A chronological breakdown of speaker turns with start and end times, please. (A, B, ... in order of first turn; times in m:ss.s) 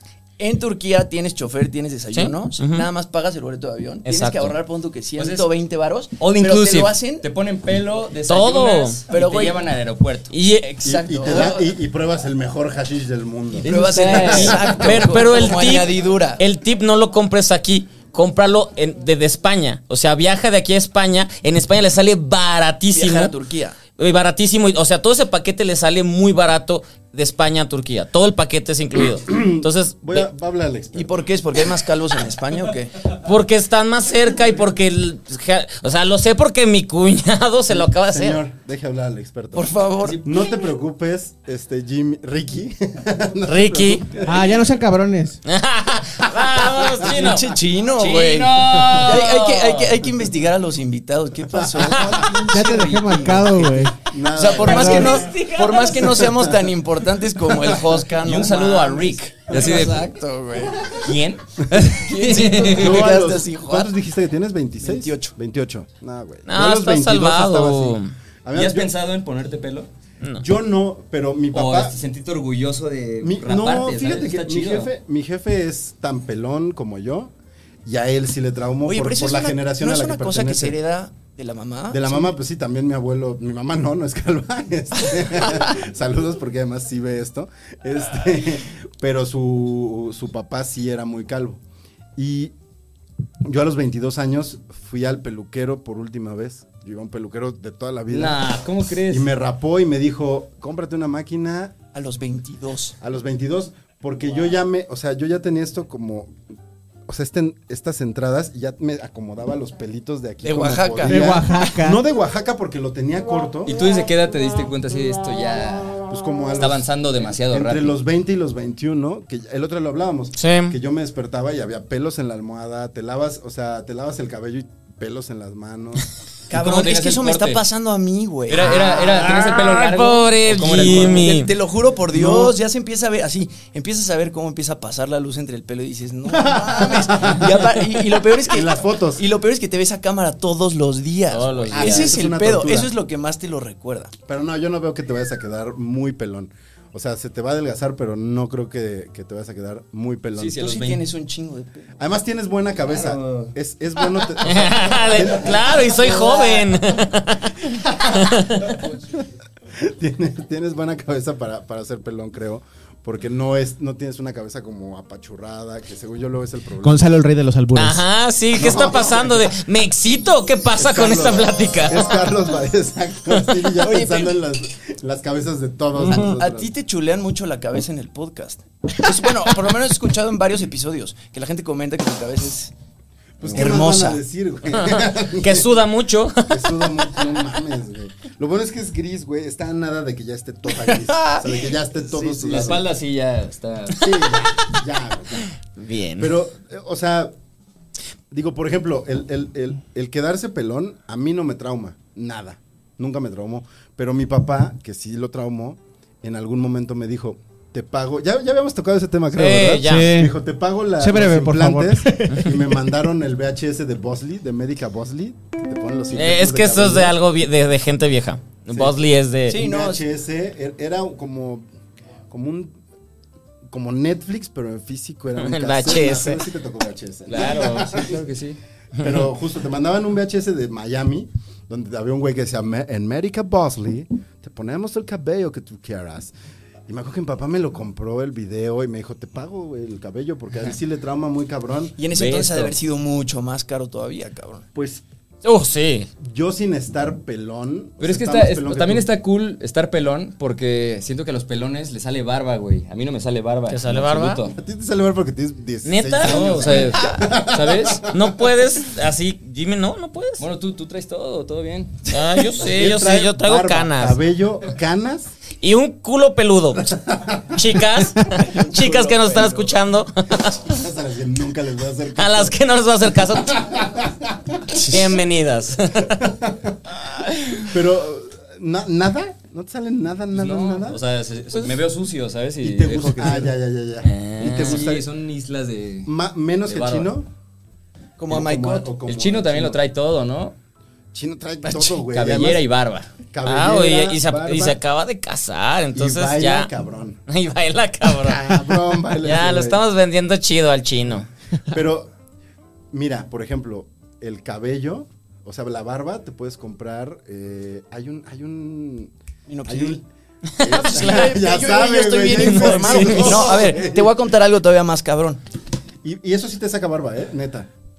0:00.4-0:07.3 A
0:02.1-0:02.9 B
0:04.1-0:04.6 B
0:05.2-0:05.5 C
0:06.2-0:10.3 C
0:08.3-0:09.0 B
0:09.1-0:09.6 A
0:10.3-0:10.8 B
0:10.7-0:11.7 A
0:10.8-0:13.7 D
0:13.6-0:14.8 C
0:13.6-0:16.4 A
0:14.0-0:23.3 B
0:22.9-0:23.8 A
0:24.0-0:30.3 B
0:29.0-0:31.2 D
0:31.0-0:33.0 A
0:33.1-0:38.4 B
0:37.7-0:44.6 D
0:39.5-0:40.2 A
0:40.0-0:40.3 C
0:43.5-0:44.2 B
0:44.2-0:45.4 E
0:45.5-0:49.8 B
0:46.5-0:47.0 D
0:47.1-1:01.1 A
0:48.0-0:49.4 C
0:51.5-0:52.3 D
0:52.3-0:54.0 E
0:54.0-0:55.2 D
0:54.7-0:55.2 E
0:54.8-0:56.2 B
0:56.1-0:56.6 D
0:58.2-1:00.1 C
1:00.8-1:03.1 C
1:02.0-1:04.0 A
1:02.6-1:08.9 D
1:04.8-1:05.3 A
1:06.5-1:08.1 B
1:08.5-1:09.9 C
1:10.4-1:12.0 D
1:11.5-1:14.9 C
1:13.2-1:17.3 D
1:17.8-1:20.8 D
1:18.9-1:22.3 A
1:21.9-1:31.6 D
1:32.2-1:32.5 D
1:33.4-1:38.5 D
1:38.1-1:39.3 C
1:39.1-1:41.8 D
1:41.9-1:43.0 A
1:43.0-1:46.4 D
1:47.1-1:53.8 D
1:50.4-1:51.3 A
1:51.1-1:52.0 E
1:53.6-1:56.0 C
1:56.1-2:06.1 D
1:56.6-1:58.0 C
2:00.4-2:00.8 B
2:06.5-2:09.1 A
2:06.5-2:07.6 C
2:08.5-2:11.5 C
2:09.2-2:11.5 B
2:10.8-2:24.1 A
2:12.2-2:12.5 D
2:16.7-2:19.2 D
2:21.3-2:22.1 B
2:21.7-2:22.9 D
2:24.3-2:30.6 D
2:30.4-2:31.0 C
2:30.6-2:31.9 A
2:32.0-2:36.2 D
2:32.9-2:33.5 C
2:34.4-2:38.7 B
2:36.2-2:36.6 A
2:38.1-2:38.5 D
2:39.7-2:47.0 D
2:46.8-2:48.0 E
2:47.7-2:52.1 B
2:48.5-2:49.5 D
2:50.7-2:56.7 D
2:53.8-2:54.4 A
2:56.1-3:02.7 A
3:03.4-3:05.8 D
3:03.4-3:03.7 B
3:03.5-3:04.2 A
3:04.7-3:07.0 B
3:06.4-3:12.9 D
3:11.0-3:11.5 A
3:12.1-3:12.7 A
3:12.3-3:14.1 C
3:14.0-3:15.5 D
3:15.8-3:16.3 B
3:16.2-3:17.4 D
3:18.3-3:37.2 D
3:29.3-3:30.2 B
3:29.8-3:30.4 E
3:31.0-3:32.5 E
3:36.1-3:39.6 B
3:38.7-3:39.0 D
3:39.5-3:40.0 A
3:39.5-3:41.7 D
3:42.3-3:42.8 D
3:43.7-3:48.3 D
3:45.4-3:46.4 B
3:47.3-3:48.6 C
3:49.0-3:49.3 B
3:49.0-3:56.3 D
3:56.9-4:02.0 D
4:02.0-4:04.7 A
4:02.1-4:02.8 C
4:04.8-4:05.0 D
4:05.4-4:06.1 B
4:06.2-4:09.1 D
4:08.0-4:14.6 C
4:13.7-4:14.4 B
4:14.5-4:18.4 D
4:15.8-4:17.0 B
4:16.2-4:18.1 C
4:18.1-4:20.4 B
4:20.4-4:22.0 C
4:22.1-4:24.2 B
4:22.6-4:25.4 D
4:25.6-4:26.9 B
4:26.8-4:28.2 D
4:27.5-4:30.7 B
4:28.4-4:29.8 A
4:30.6-4:32.6 D
4:32.2-4:33.7 B
4:33.4-4:35.0 D
4:34.7-4:36.2 B
4:36.1-4:36.8 D
4:37.2-4:37.7 B
4:37.6-4:41.0 D
4:40.3-4:43.5 C
4:42.6-4:45.1 D
4:44.0-4:44.8 B
4:44.5-4:46.1 C
4:46.0-4:47.3 D
4:46.7-4:47.1 C
4:48.2-4:48.9 A
4:48.3-4:49.8 D
4:49.1-4:50.6 C
4:51.1-4:52.6 D
4:52.1-4:53.1 C
4:53.3-4:54.8 D
4:53.4-4:56.7 B
4:55.9-4:57.2 D
4:57.3-4:58.7 B
4:58.0-4:59.8 D
4:59.2-5:01.3 B
5:01.7-5:02.1 D
5:02.9-5:09.1 D
5:09.5-5:10.0 A
5:09.7-5:10.0 D
5:10.6-5:14.2 D
5:10.6-5:11.5 B
5:10.7-5:15.4 A
5:12.3-5:13.6 B
5:16.0-5:17.7 D